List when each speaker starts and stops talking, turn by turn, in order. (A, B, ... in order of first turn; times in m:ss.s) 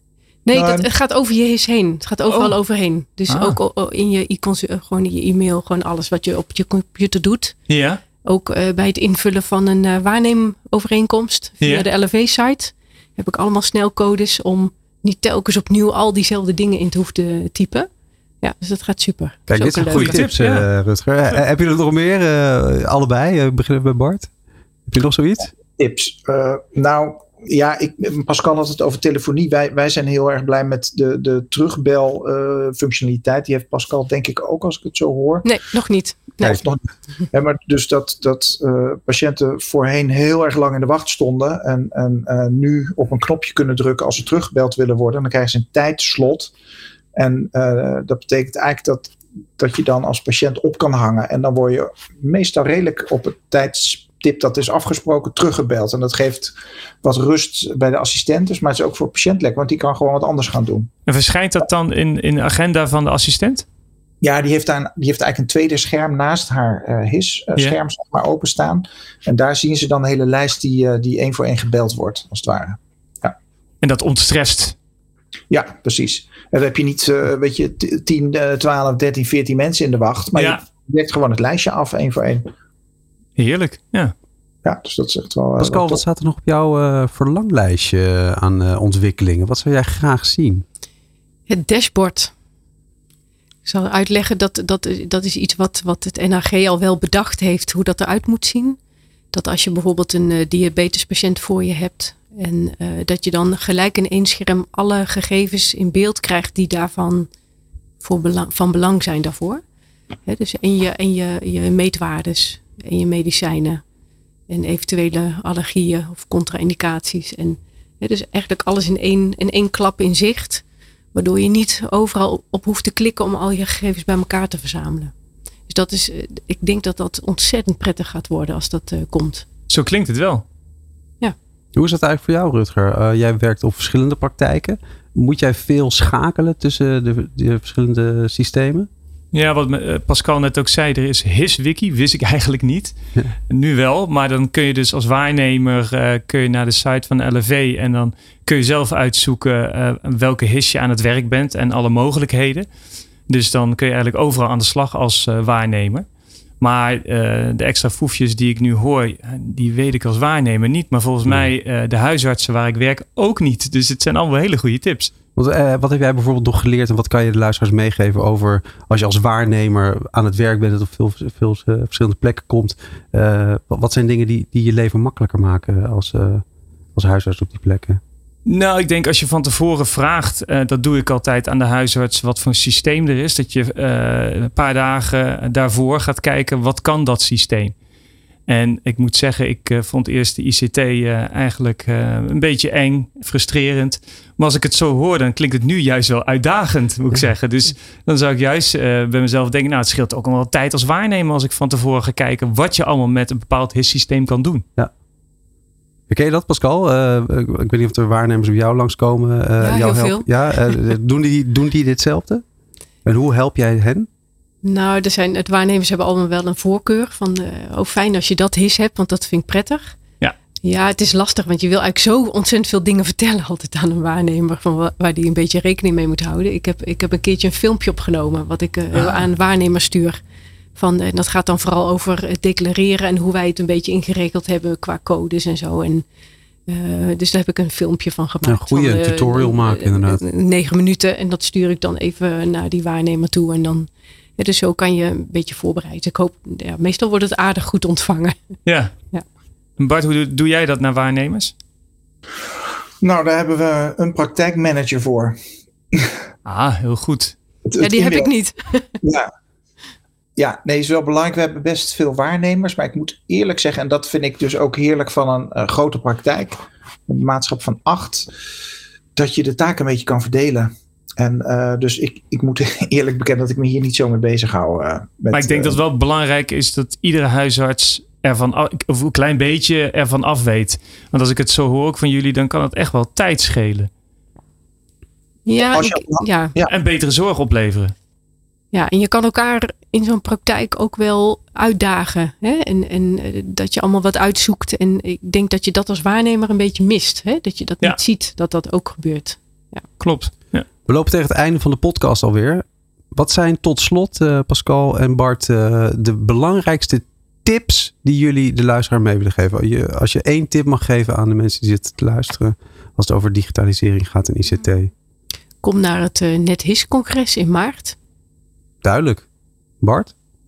0:00.5-0:07.6 A
0:00.5-0:00.9 B
0:02.3-0:02.6 C
0:03.3-0:03.6 C
0:07.7-0:08.0 C
0:08.2-0:17.9 A
0:18.4-0:20.2 A
0:19.5-0:24.3 D
0:19.9-0:20.7 C
0:24.9-0:25.5 D
0:25.8-0:35.5 B
0:35.4-0:36.6 A
0:36.4-0:46.5 B
0:47.2-1:00.9 B
1:01.1-1:03.7 C
1:04.2-1:13.4 B
1:13.8-1:14.8 C
1:15.5-1:22.5 B
1:20.4-1:20.6 C
1:23.4-1:24.1 C
1:24.6-1:26.0 B
1:25.6-1:30.6 D
1:31.5-1:32.3 A
1:33.6-1:38.8 A
1:39.3-1:47.3 A
1:48.0-1:49.6 A
1:50.3-1:53.8 A
1:54.5-2:05.1 A
2:05.7-2:09.5 A
2:09.7-2:10.4 C
2:11.8-2:18.9 D
2:19.3-2:23.0 C
2:23.5-2:32.7 C
2:33.3-2:36.1 C
2:36.6-2:45.1 C
2:45.4-2:56.4 D
2:57.0-2:58.0 D
2:58.5-3:07.8 C
3:08.5-3:24.6 C
3:26.1-3:32.4 D
3:29.6-3:30.8 A
3:33.0-3:34.1 D
3:34.6-3:40.0 A
3:40.6-3:50.2 A
3:48.9-3:49.2 C
3:50.8-3:56.0 A
3:56.7-4:08.4 A
3:58.5-4:00.2 D
4:08.7-4:09.0 C
4:09.8-4:11.5 C
4:13.0-4:15.4 B
4:16.5-4:17.4 C
4:17.7-4:18.3 B
4:17.8-4:19.0 A
4:19.0-4:19.3 B
4:20.4-4:28.3 B
4:29.2-4:35.8 B
4:35.3-4:43.9 C
4:45.5-4:46.5 A
4:45.7-4:46.7 B
4:46.7-4:47.9 C
4:48.7-4:59.8 A
5:00.0-5:00.7 C
5:00.9-5:14.9 D
5:15.6-5:18.0 A
5:18.8-5:19.3 D
5:19.8-5:20.1 D